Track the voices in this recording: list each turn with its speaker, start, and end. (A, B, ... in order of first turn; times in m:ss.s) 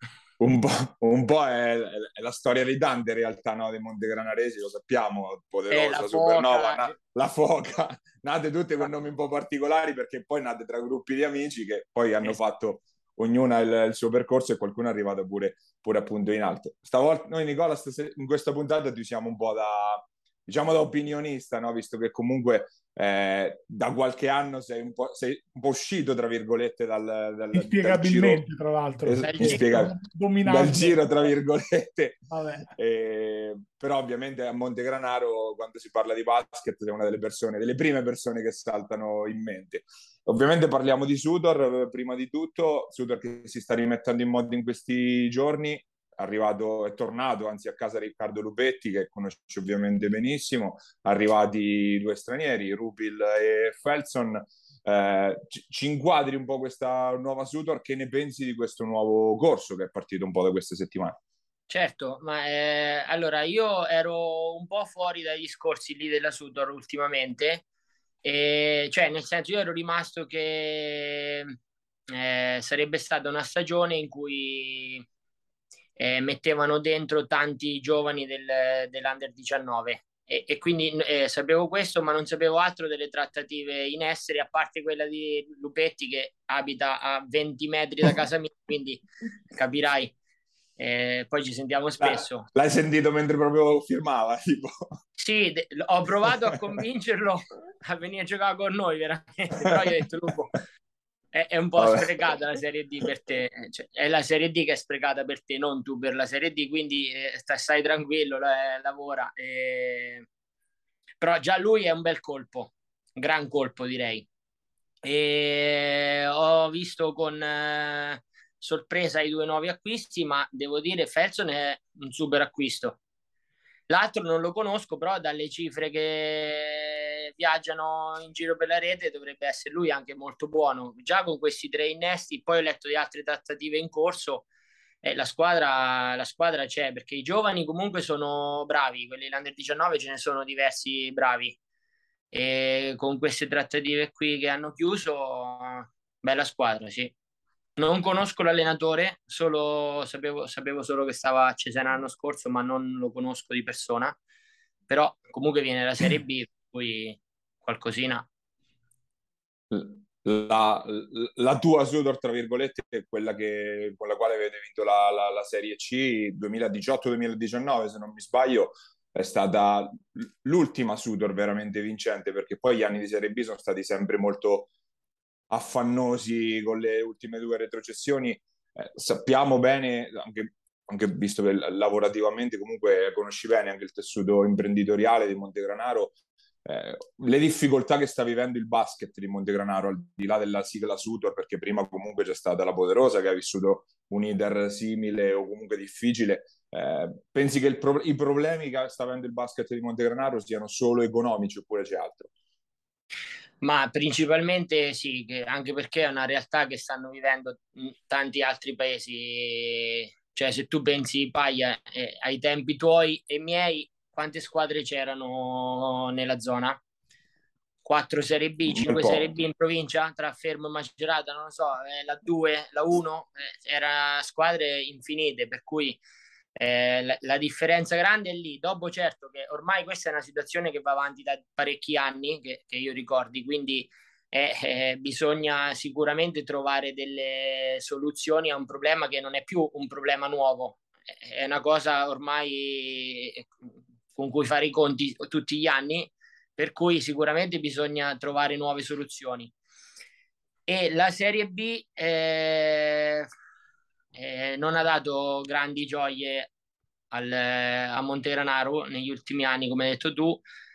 0:00.4-0:28.4 A
0:05.7-0:06.9 B
0:27.5-0:31.0 C
0:29.0-1:01.2 A
0:29.2-0:29.6 B
0:32.3-0:32.7 C
1:01.7-1:07.6 B
1:08.2-1:11.5 B
1:12.1-1:15.0 B
1:16.0-1:30.1 B
1:30.8-1:32.4 B
1:32.0-1:34.9 A
1:35.2-1:40.6 B
1:41.3-1:50.3 B
1:41.8-1:42.3 A
1:51.2-1:54.3 B
1:55.0-2:03.0 B
2:03.9-2:14.4 B
2:15.0-2:21.6 B
2:22.3-2:27.1 B
2:27.8-2:34.2 B
2:34.9-2:38.3 B
2:39.7-2:54.7 A
2:55.5-3:22.3 A
3:23.6-3:36.8 B
3:37.8-3:46.0 B
3:38.7-3:39.3 A
3:46.6-4:03.5 B
4:04.1-4:09.5 B
4:10.7-4:13.3 B
4:14.1-4:16.5 B
4:17.1-4:20.4 B